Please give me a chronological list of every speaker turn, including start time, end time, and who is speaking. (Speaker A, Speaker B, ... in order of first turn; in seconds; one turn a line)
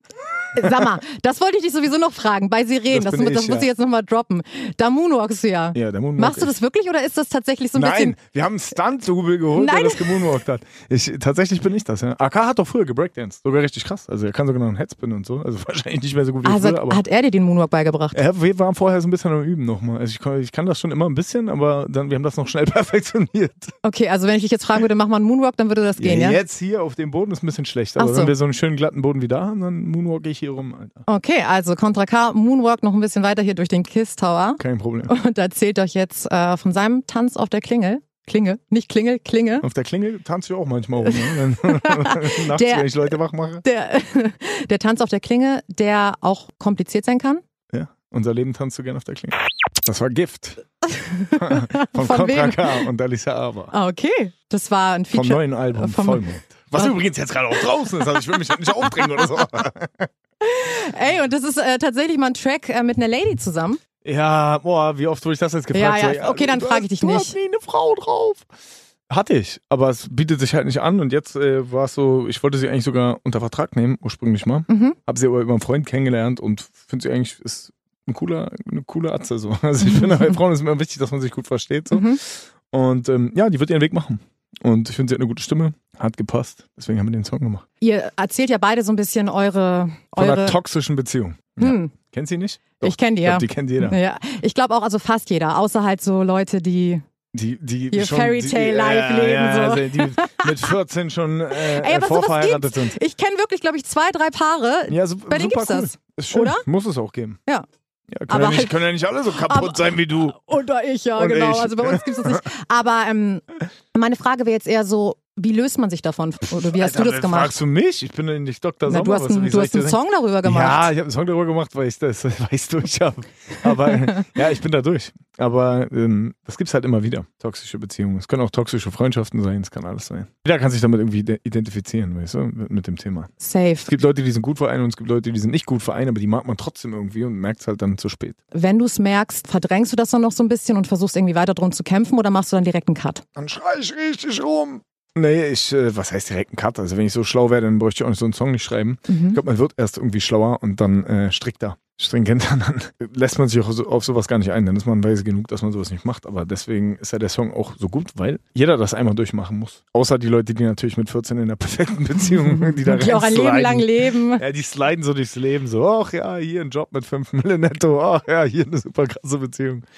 Speaker A: 0.5-8.2
Speaker B: 0.6-0.8
Speaker B: 2.9-3.7
Speaker B: 5.7-6.5
Speaker B: 7.7-17.0
Speaker A: 9.5-10.2
Speaker A: 16.4-18.2
Speaker B: 18.1-23.7
Speaker A: 23.8-26.4
Speaker B: 26.0-31.0
Speaker A: 28.0-28.3
Speaker A: 31.1-39.6
Speaker B: 34.6-35.1
Speaker B: 39.6-43.6
Speaker A: 41.1-43.1
Speaker A: 43.6-47.4
Speaker B: 47.7-50.6
Speaker A: 50.9-52.9
Speaker B: 51.4-53.7
Speaker A: 53.7-56.9
Speaker B: 55.1-60.1
Speaker A: 60.4-63.8
Speaker B: 64.0-68.5
Speaker A: 65.7-67.3
Speaker B: 69.1-87.6
Speaker A: 74.7-75.0
Speaker A: 81.9-82.2
Speaker A: 87.8-90.6
Speaker B: 90.2-94.0
Speaker A: 91.6-91.9
Speaker A: 92.8-97.0
Speaker B: 97.3-103.0
Speaker A: 97.9-100.7
Speaker A: 101.5-106.7
Speaker B: 104.9-107.4
Speaker B: 108.1-110.4
Speaker A: 108.3-117.5
Speaker B: 111.2-112.4
Speaker B: 116.6-133.3
Speaker A: 118.8-120.9
Speaker A: 133.4-133.9
Speaker B: 133.8-138.4
Speaker A: 138.5-143.2
Speaker B: 143.3-169.8
Speaker A: 149.1-149.4
Speaker A: 162.6-164.4